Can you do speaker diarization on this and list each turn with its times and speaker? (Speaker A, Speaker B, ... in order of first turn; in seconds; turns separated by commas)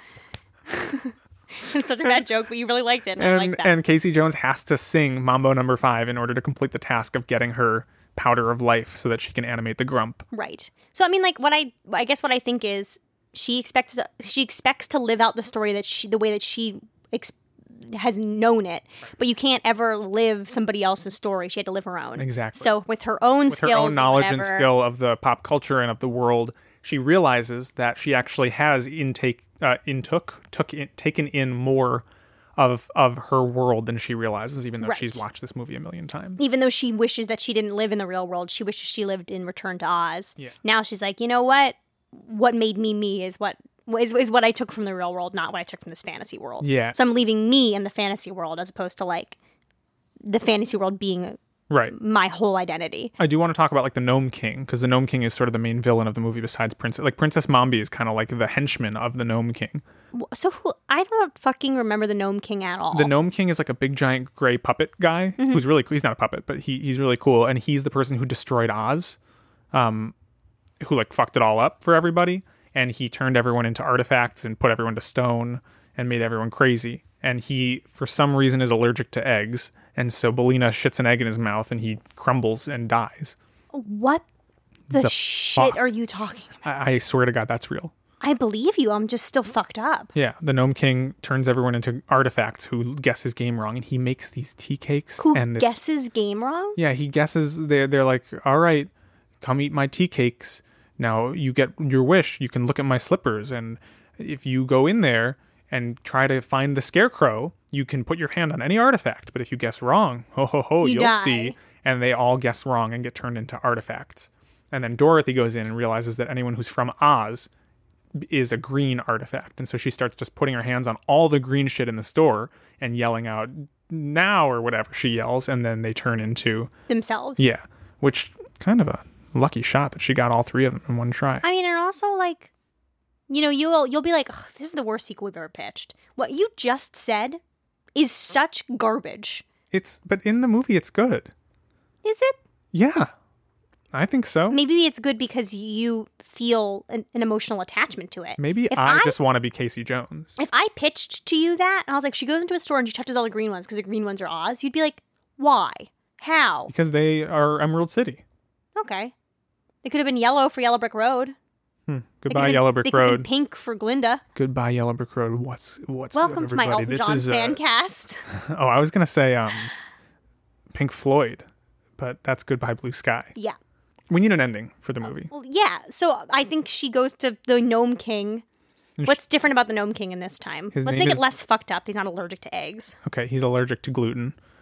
Speaker A: 0.7-3.8, Speaker B: 3.2-10.2, Speaker A: 10.3-24.7, Speaker B: 22.2-22.7, Speaker B: 23.5-32.0, Speaker B: 32.6-36.4, Speaker A: 34.8-35.2, Speaker A: 36.4-49.4, Speaker B: 46.6-47.0, Speaker A: 50.2-51.4, Speaker B: 51.7-51.9, Speaker A: 51.9-53.1, Speaker B: 53.2-59.8, Speaker A: 60.1-63.1, Speaker B: 62.9-69.2, Speaker A: 65.4-65.6, Speaker B: 69.7-70.1, Speaker B: 70.8-83.4, Speaker A: 83.7-84.2, Speaker B: 84.9-85.8, Speaker A: 84.9-86.6, Speaker B: 86.6-87.9, Speaker A: 88.2-90.1, Speaker B: 90.1-95.8, Speaker A: 95.2-96.8, Speaker B: 96.8-98.9, Speaker B: 99.4-117.5, Speaker A: 110.8-111.6, Speaker B: 118.2-126.7, Speaker A: 126.9-127.5, Speaker B: 127.4-131.4, Speaker A: 131.4-132.5, Speaker A: 133.3-137.4, Speaker A: 137.9-139.4, Speaker B: 139.7-141.3, Speaker A: 142.0-142.4, Speaker B: 142.7-143.1, Speaker B: 143.9-144.6, Speaker A: 144.5-149.2, Speaker B: 148.4-150.4, Speaker A: 150.4-156.7, Speaker B: 156.7-158.2, Speaker A: 158.7-159.1, Speaker A: 159.8-161.4, Speaker B: 161.9-163.3, Speaker A: 162.3-164.2, Speaker B: 164.3-167.6, Speaker A: 166.1-168.2, Speaker B: 168.3-169.7, Speaker B: 170.7-171.4, Speaker B: 172.0-173.3, Speaker B: 174.1-175.3, Speaker A: 175.3-178.4, Speaker A: 179.0-183.0, Speaker B: 180.7-181.2, Speaker B: 183.0-184.4